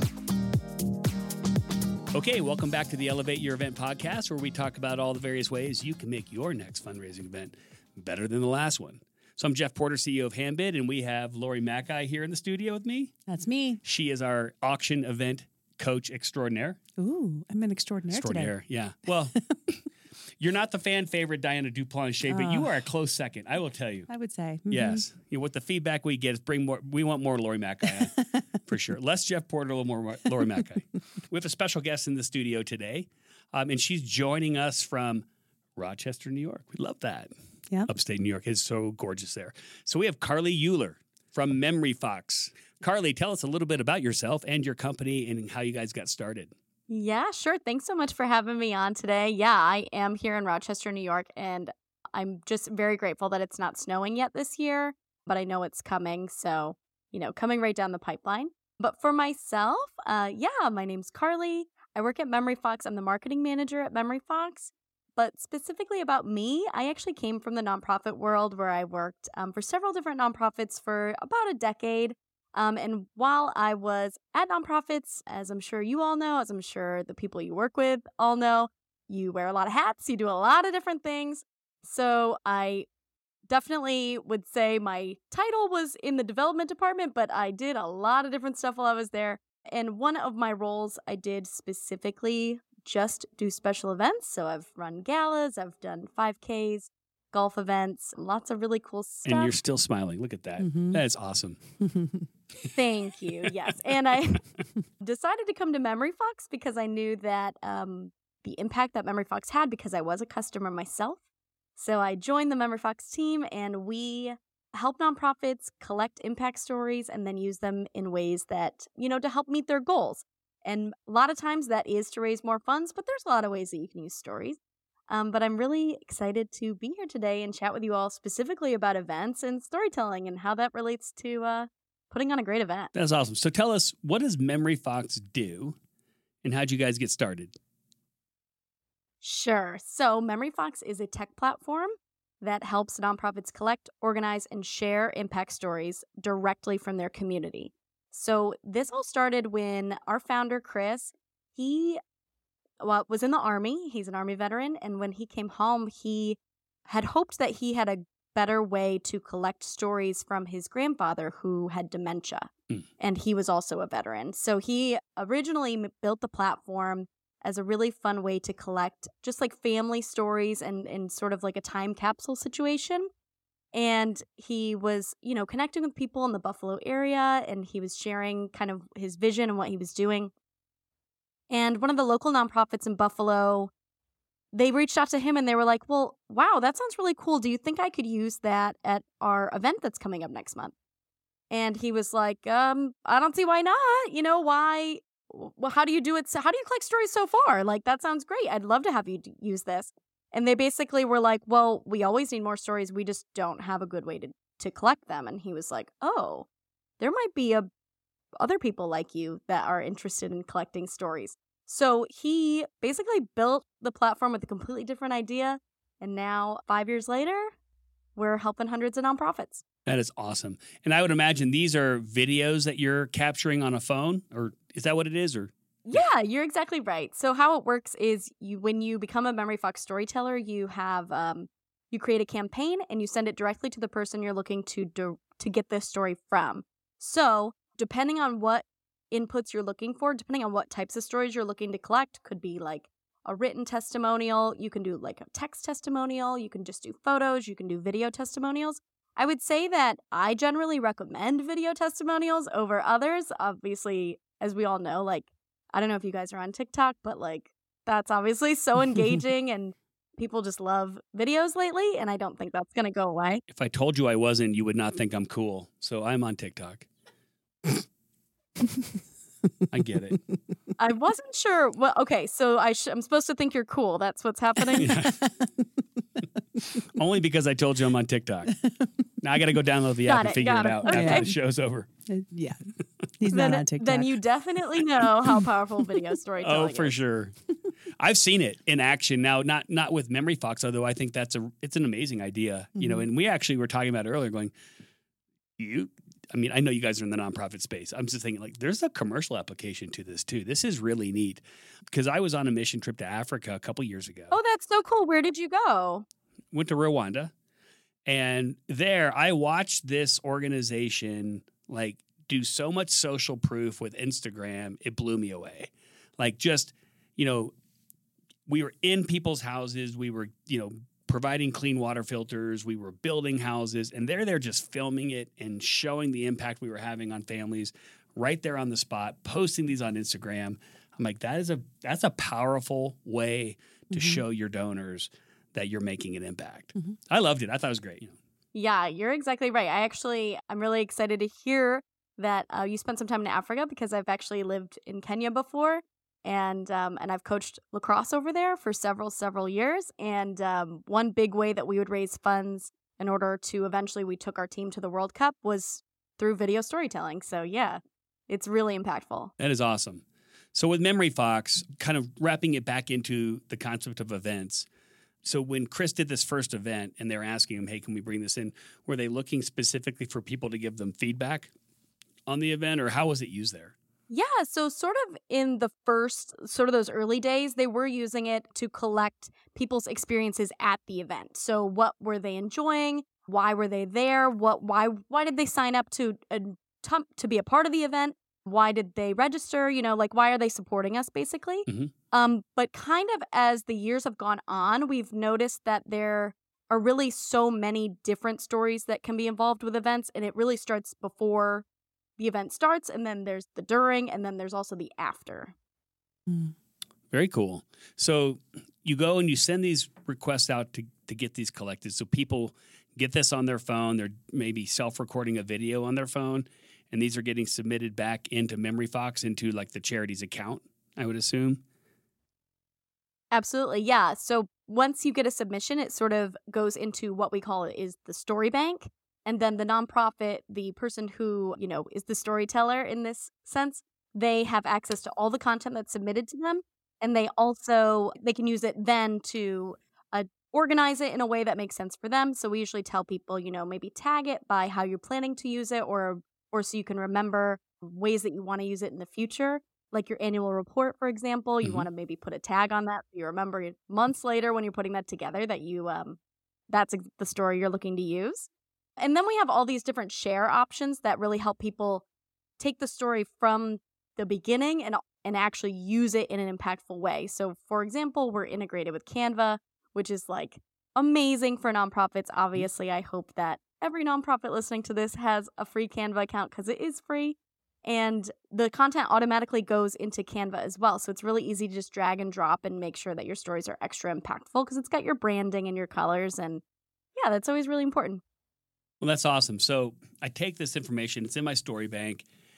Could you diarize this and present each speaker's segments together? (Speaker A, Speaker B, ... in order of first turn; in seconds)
Speaker A: 2.1-13.1, 13.8-16.8, 18.1-19.4, 20.4-24.1, 24.7-35.2, 35.8-37.3, 37.9-46.5, 99.3-101.6, 132.9-135.8, 136.4-137.5, 219.8-226.0, 263.5-266.9, 269.7-270.2, 274.8-275.2, 276.9-278.6, 279.2-281.9, 286.4-287.4, 288.0-294.5, 295.6-304.4, 306.5-307.3, 308.1-317.5, 318.5-338.1, 359.4-360.0, 360.5-364.7, 365.2-371.5, 372.3-373.8, 391.7-391.9, 407.1-421.6, 489.0-492.2
Speaker B: 13.3-13.8, 17.0-18.5, 22.3-22.7, 24.1-25.0, 27.8-28.4, 100.6-101.0, 101.8-102.3, 275.2-275.7, 278.6-278.9, 280.9-281.3, 282.1-284.1, 292.8-293.1, 333.9-334.2
Speaker C: 46.9-82.9, 83.5-99.5, 102.8-104.5, 105.0-111.2, 111.8-124.6, 125.1-132.9, 139.2-152.0, 152.8-173.1, 173.7-180.3, 181.5-183.7, 184.5-190.7, 191.5-206.5, 207.0-207.7, 208.4-217.5, 218.2-219.6, 225.8-263.4, 270.8-275.0, 280.1-281.3, 283.3-286.9, 304.3-306.1, 338.5-359.3, 374.1-401.6, 402.2-405.5, 423.3-456.2, 456.7-462.0, 462.6-486.6, 487.2-488.2